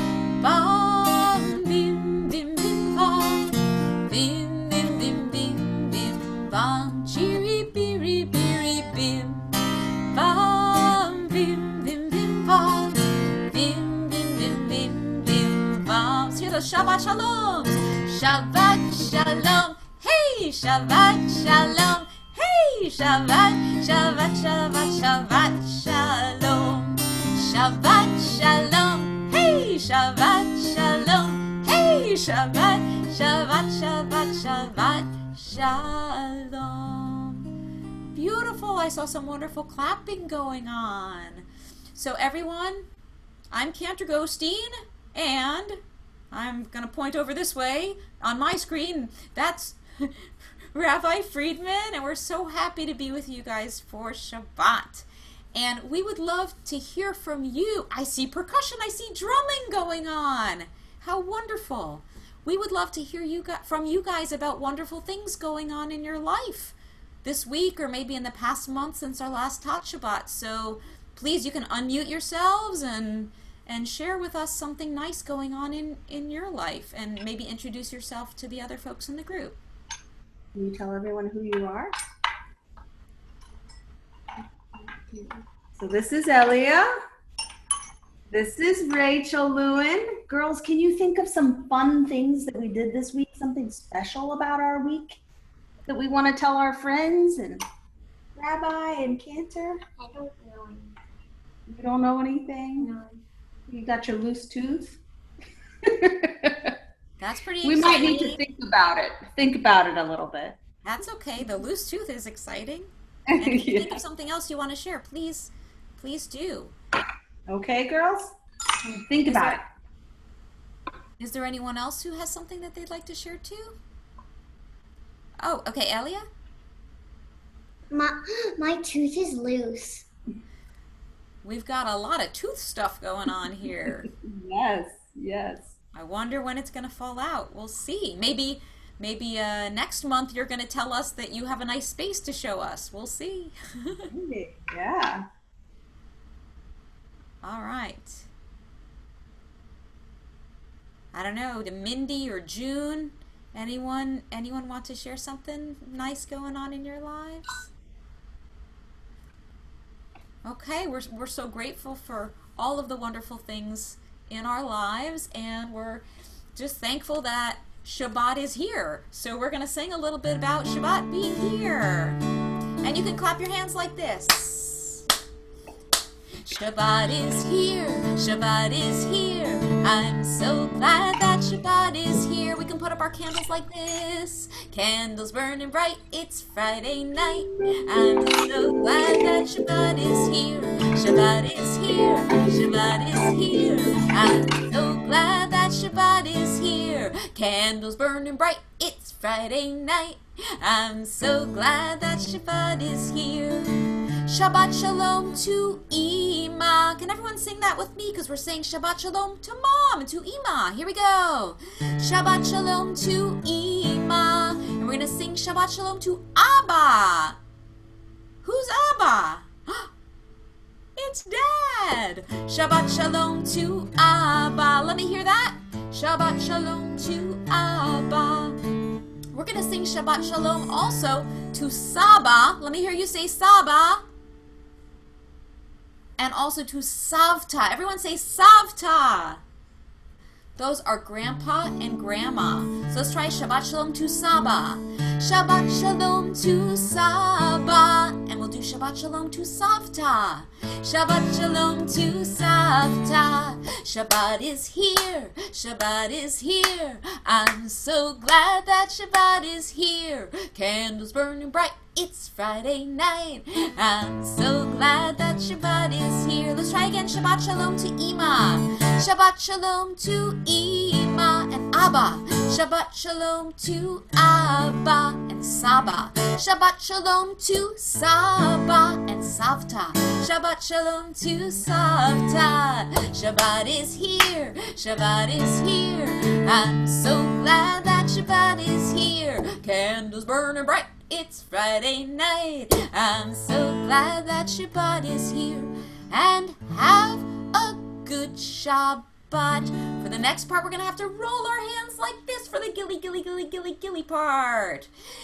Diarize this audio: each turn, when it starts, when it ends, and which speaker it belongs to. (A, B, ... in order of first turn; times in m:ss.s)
0:00.4-0:37.5 A
0:38.1-0:42.9 A
0:43.5-0:45.8 A
0:46.3-1:19.6 A
1:20.5-1:21.9 B
1:25.8-1:26.9 B
1:28.3-1:35.2 B
1:35.8-1:37.6 B
1:38.4-1:39.8 B
1:40.0-1:41.0 C
1:41.7-1:42.9 B
1:42.8-1:43.2 C
1:43.7-1:45.0 B
1:45.8-1:46.7 B
1:47.2-1:48.4 A
1:47.6-1:50.6 B
1:50.8-1:56.8 A
1:53.3-1:53.9 B
1:57.5-1:58.3 B
1:58.9-1:59.6 B
1:59.2-1:59.6 A
2:01.2-2:03.8 A
2:05.4-2:06.2 A
2:07.9-2:10.0 C
2:11.4-2:14.1 A
2:14.1-2:15.7 B
2:15.9-2:24.1 A
2:24.1-2:25.2 B
2:27.4-2:28.3 A
2:31.1-2:37.5 A
2:40.4-2:52.2 A
2:52.8-2:55.0 A
2:56.4-3:37.4 A
3:38.4-3:39.9 A
3:41.0-3:48.6 A
3:49.3-3:54.0 A
3:56.2-3:59.4 A
4:00.6-5:04.9 A